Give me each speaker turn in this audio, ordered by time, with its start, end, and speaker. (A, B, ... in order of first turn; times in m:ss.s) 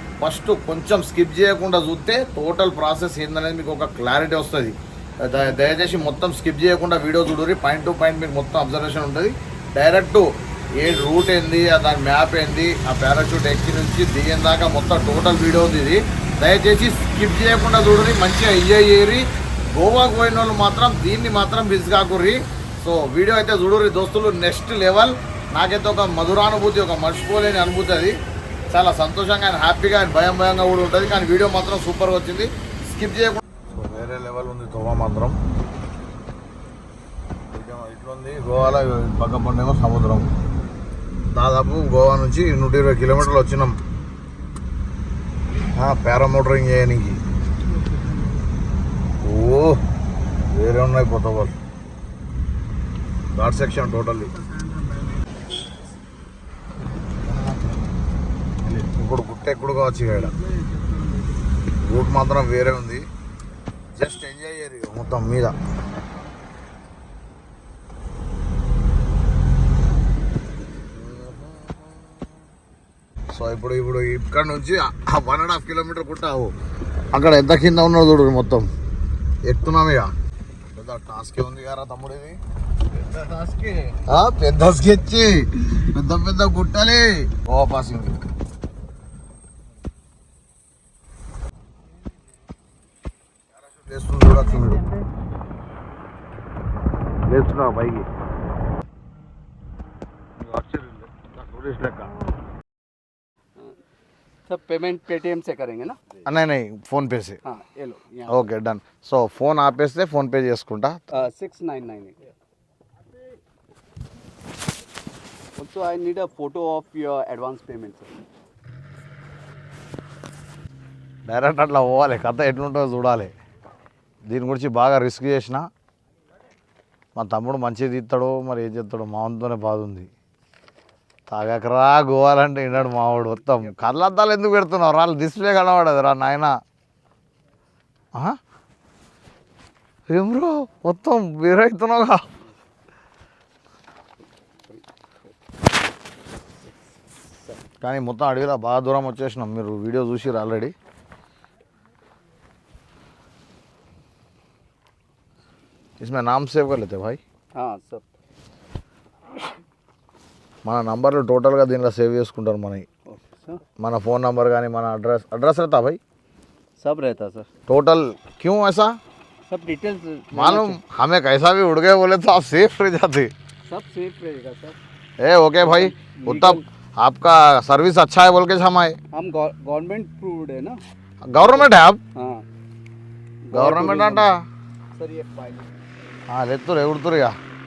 0:00.2-0:10.3 A
0:10.8-0:28.2 A
0:28.7-0:35.4 A
0:37.5-0:40.3 A
0:41.3-0:43.8 A
0:45.8-0:47.2 A
0:49.2-0:49.8 A
0:50.5-0:51.6 A
0:53.3-0:54.3 A
0:58.7-1:00.4 A
1:01.7-1:03.0 A
1:04.0-1:05.6 A
1:11.0-1:11.8 A
1:13.3-1:16.5 A
1:17.1-1:18.7 A
1:19.4-1:20.1 A
1:20.7-1:22.4 A
1:22.9-1:28.2 A
1:33.6-1:34.9 A
1:37.3-1:38.1 A
1:40.4-1:42.1 A
1:44.5-1:46.0 B
1:46.2-1:47.4 A
1:47.4-1:48.5 B
1:48.3-1:51.0 A
1:51.2-1:52.2 B
1:55.6-1:58.1 B
2:01.3-2:03.3 A
2:04.3-2:05.7 A
2:07.2-2:10.1 A
2:11.3-2:16.5 A
2:20.1-2:22.3 A
2:27.8-2:30.7 A
2:36.0-2:37.2 A
2:37.6-2:38.0 B
2:40.6-2:42.8 A
2:43.1-2:43.6 B
2:43.8-2:46.0 A
2:46.8-2:47.5 B
2:47.7-2:49.0 A
2:49.5-2:50.8 B
2:50.3-2:53.3 A
2:53.7-2:54.8 B
2:55.2-2:59.0 A
2:55.6-2:56.6 B
2:59.1-3:00.8 B
3:01.3-3:02.0 A
3:01.4-3:02.4 B
3:03.5-3:04.3 B
3:03.5-3:04.4 A
3:05.0-3:05.7 B
3:06.3-3:07.4 A